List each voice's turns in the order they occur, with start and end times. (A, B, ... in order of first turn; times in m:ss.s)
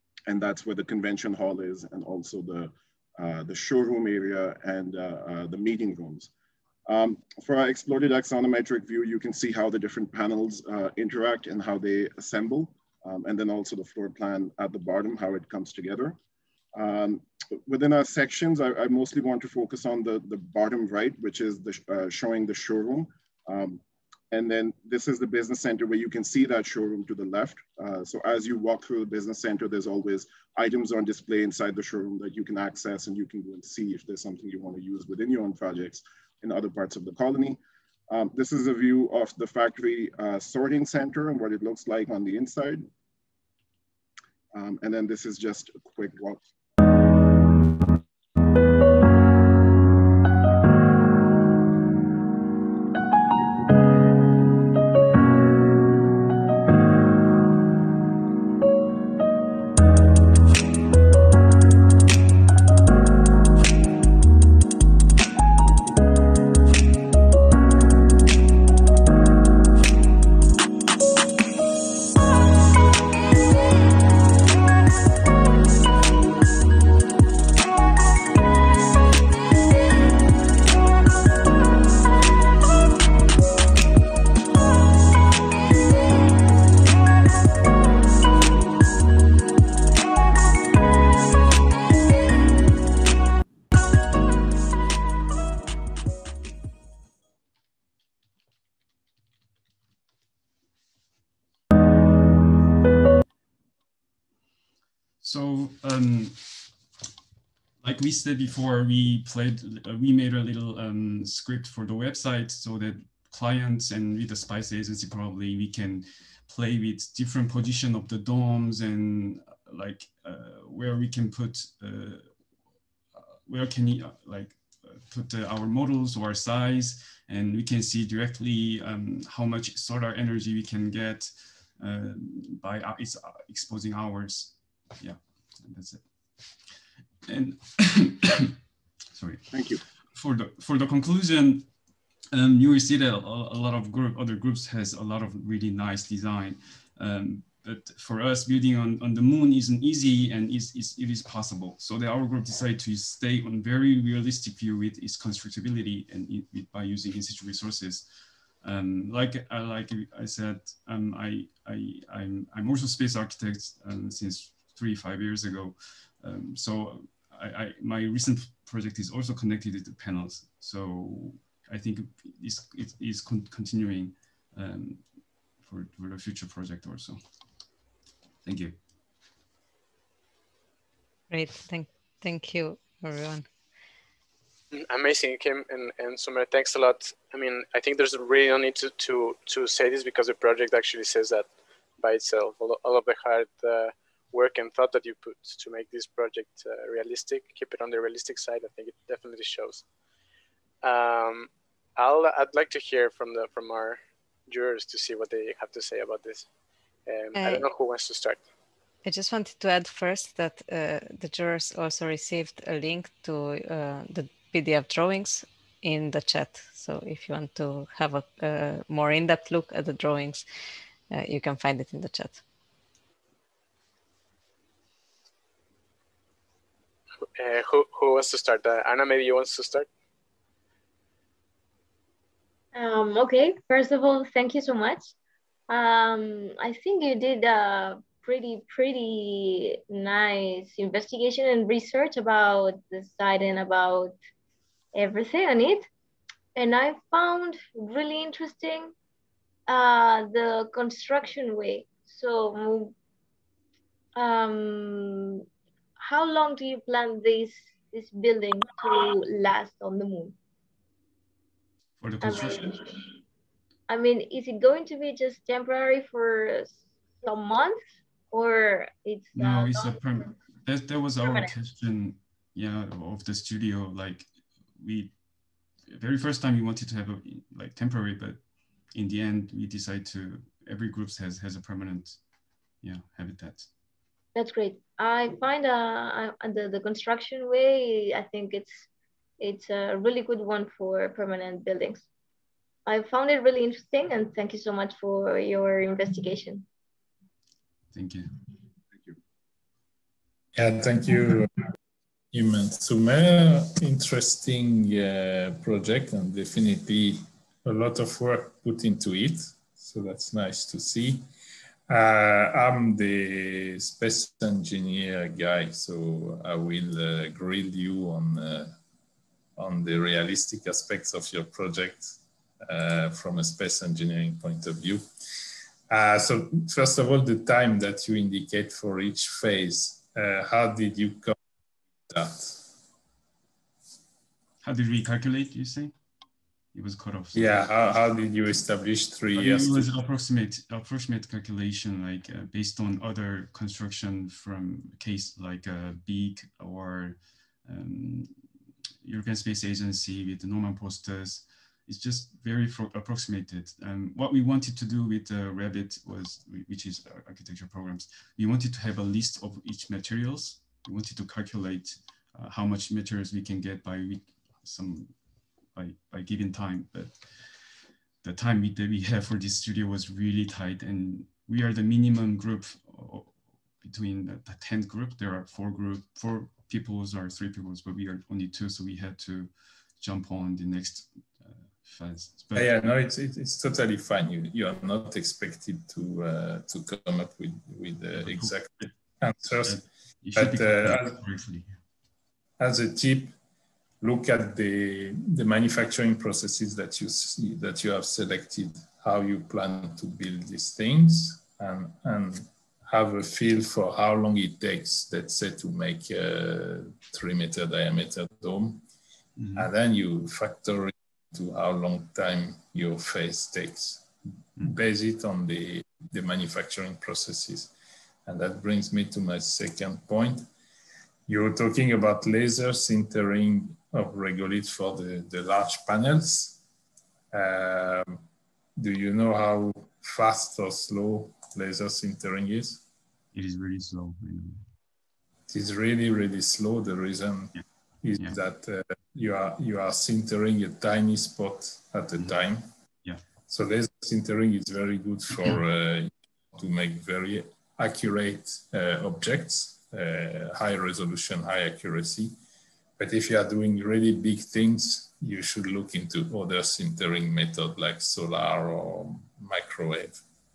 0:00.3-0:06.3 A
0:06.9-0:16.2 A
0:16.7-0:42.9 A
0:44.5-0:46.4 A
1:45.2-1:46.8 B
1:47.8-2:16.7 B
2:17.3-2:18.3 B
2:19.1-2:57.6 B
2:19.5-2:19.8 A
2:58.4-2:58.8 B
3:01.3-3:03.5 C
3:04.7-3:19.8 D
3:20.8-3:26.5 D
3:27.1-3:28.4 D
3:27.3-3:27.6 C
3:29.0-3:40.4 C
3:41.1-3:42.4 C
3:47.3-3:49.9 D
3:52.7-3:55.1 E
3:55.7-4:04.1 E
4:04.9-4:05.9 E
4:06.5-4:08.9 E
4:09.7-4:12.9 E
4:14.1-4:15.4 E
4:16.0-4:20.3 E
4:22.0-4:22.8 B
4:22.2-4:23.0 E
4:23.9-4:30.4 E
4:29.3-4:43.7 B
4:31.2-4:31.5 E
4:44.3-4:48.9 E
4:49.4-4:52.0 E
4:52.8-4:56.6 E
4:57.9-4:58.3 B
5:00.5-5:01.5 F
5:02.3-5:11.2 F
5:11.9-5:18.7 F
5:19.6-5:25.0 F
5:25.9-5:31.3 F
5:32.1-5:32.6 F
5:34.6-5:36.0 B
5:36.7-5:37.7 B
5:37.3-5:39.9 F
5:39.3-5:48.5 B
5:49.0-6:22.7 B
6:22.5-6:29.8 F
6:28.1-6:28.9 B
6:29.6-6:31.8 B
6:30.4-6:31.2 F
6:32.6-6:33.3 F
6:34.0-6:48.8 F
6:49.5-6:54.1 F
6:54.6-6:57.7 F
6:58.2-7:00.5 F
7:01.3-7:06.6 F
7:07.3-7:08.2 F
7:08.8-7:12.8 F
7:13.3-7:14.6 B
7:15.5-7:22.7 F
7:23.5-7:32.3 F
7:33.0-7:40.2 F